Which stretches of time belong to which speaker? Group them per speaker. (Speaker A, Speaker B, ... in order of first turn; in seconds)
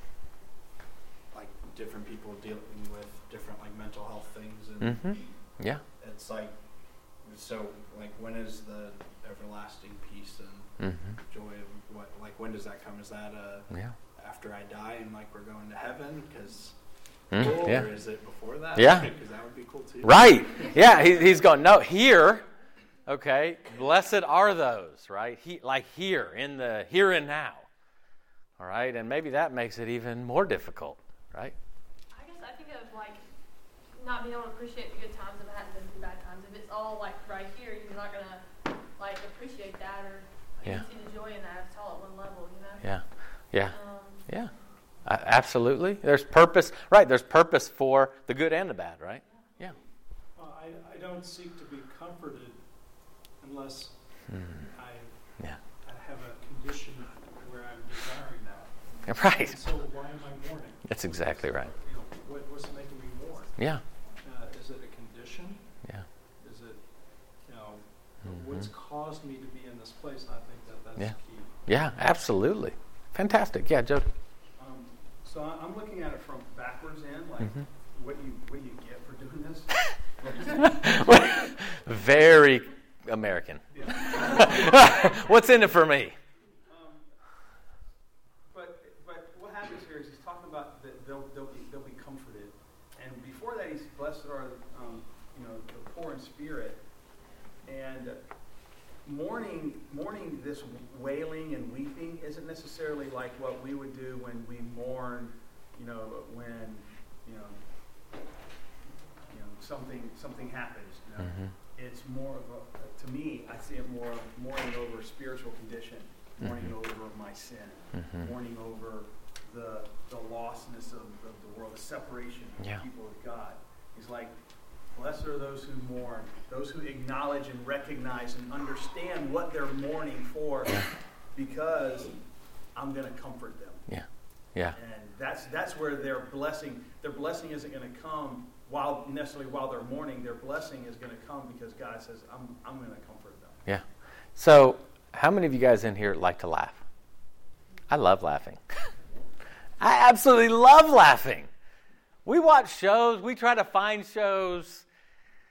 Speaker A: 1.3-5.3, 6.0-20.6
Speaker B: 4.8-5.8, 10.8-11.2, 17.3-17.9, 18.7-19.1, 20.0-22.4, 23.1-27.7, 28.6-31.6, 42.8-44.5, 45.0-49.7, 54.3-54.7, 59.0-59.6, 60.8-61.7, 63.6-63.8, 68.2-68.7, 71.0-74.1, 80.6-86.2, 111.2-111.5, 133.9-134.8, 143.7-146.8, 147.9-148.6, 149.8-151.5, 152.2-154.8
Speaker C: 32.1-33.2, 33.9-42.8, 43.7-44.3
Speaker D: 50.3-63.6, 64.2-71.6
Speaker E: 74.6-80.8, 83.7-84.8, 86.7-87.1, 88.5-96.8, 97.6-98.2, 99.0-107.7, 109.3-134.0, 134.7-143.6